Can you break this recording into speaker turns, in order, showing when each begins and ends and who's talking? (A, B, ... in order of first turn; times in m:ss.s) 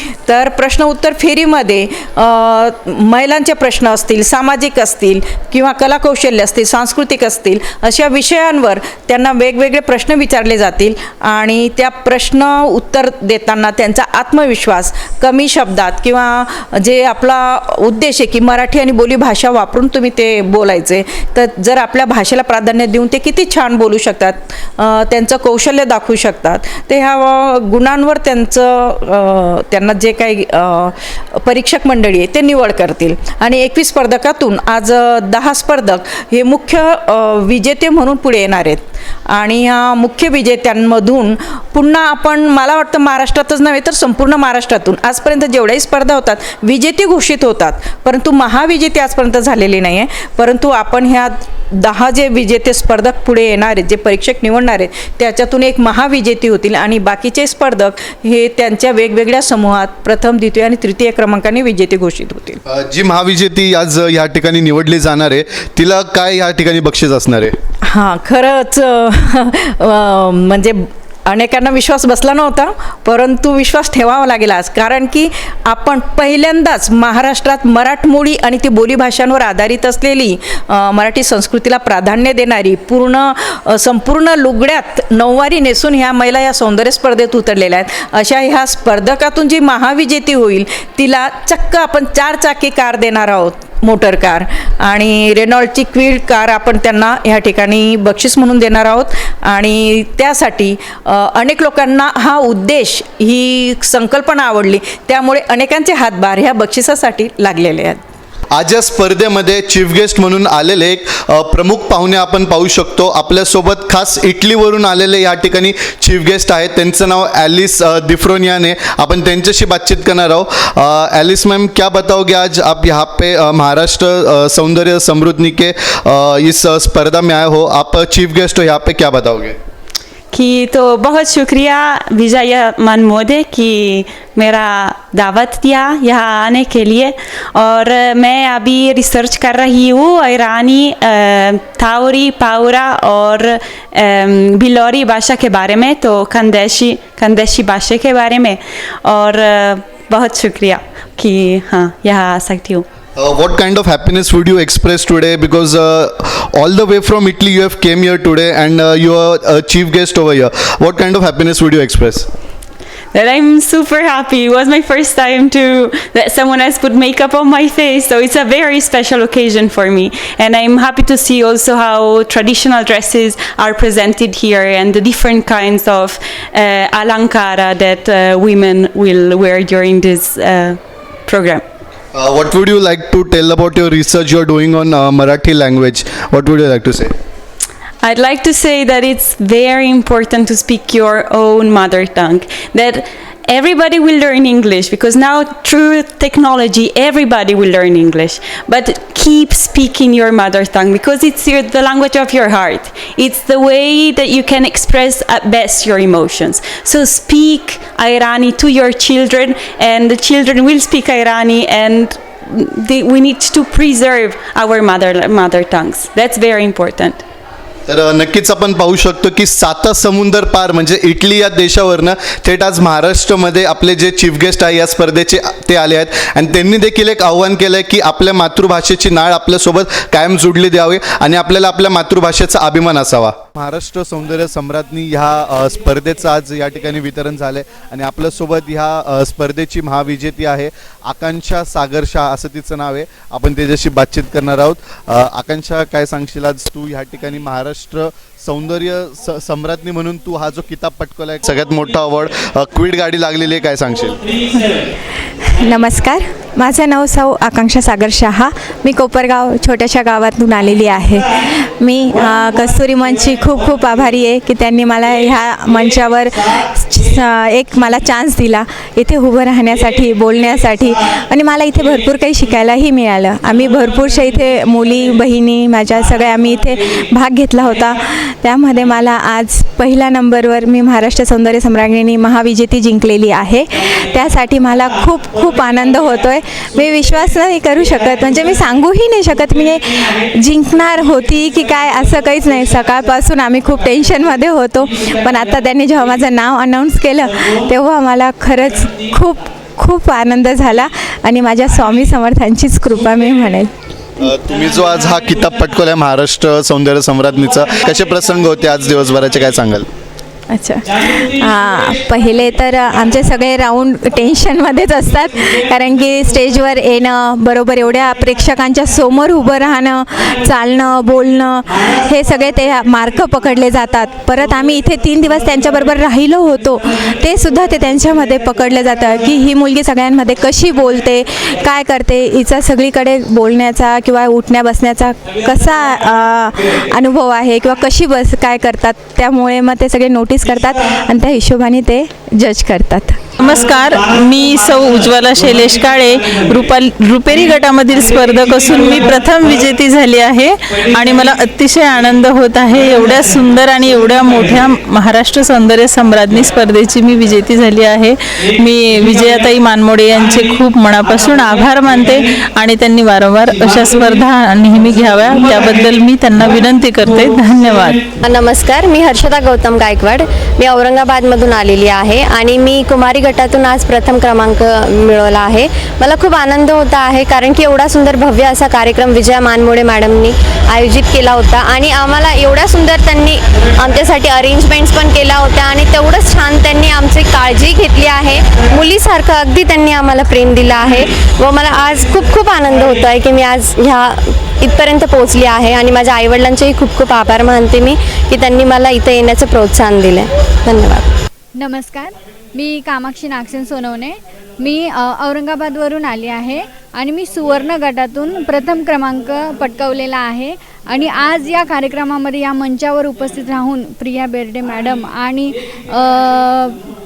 0:00.3-1:02.6 A
1:02.7-1:07.6 B
1:07.9-1:48.0 A
1:48.5-2:09.6 B
2:10.3-2:32.9 C
2:33.2-2:42.3 B
2:43.1-3:01.6 C
3:02.1-3:07.1 B
3:08.0-3:37.2 C
3:37.9-4:14.2 B
4:15.5-5:03.7 D
5:04.2-5:09.9 B
5:10.5-5:43.2 D
5:43.4-6:08.0 E
6:08.2-6:41.1 F
6:41.6-6:56.8 G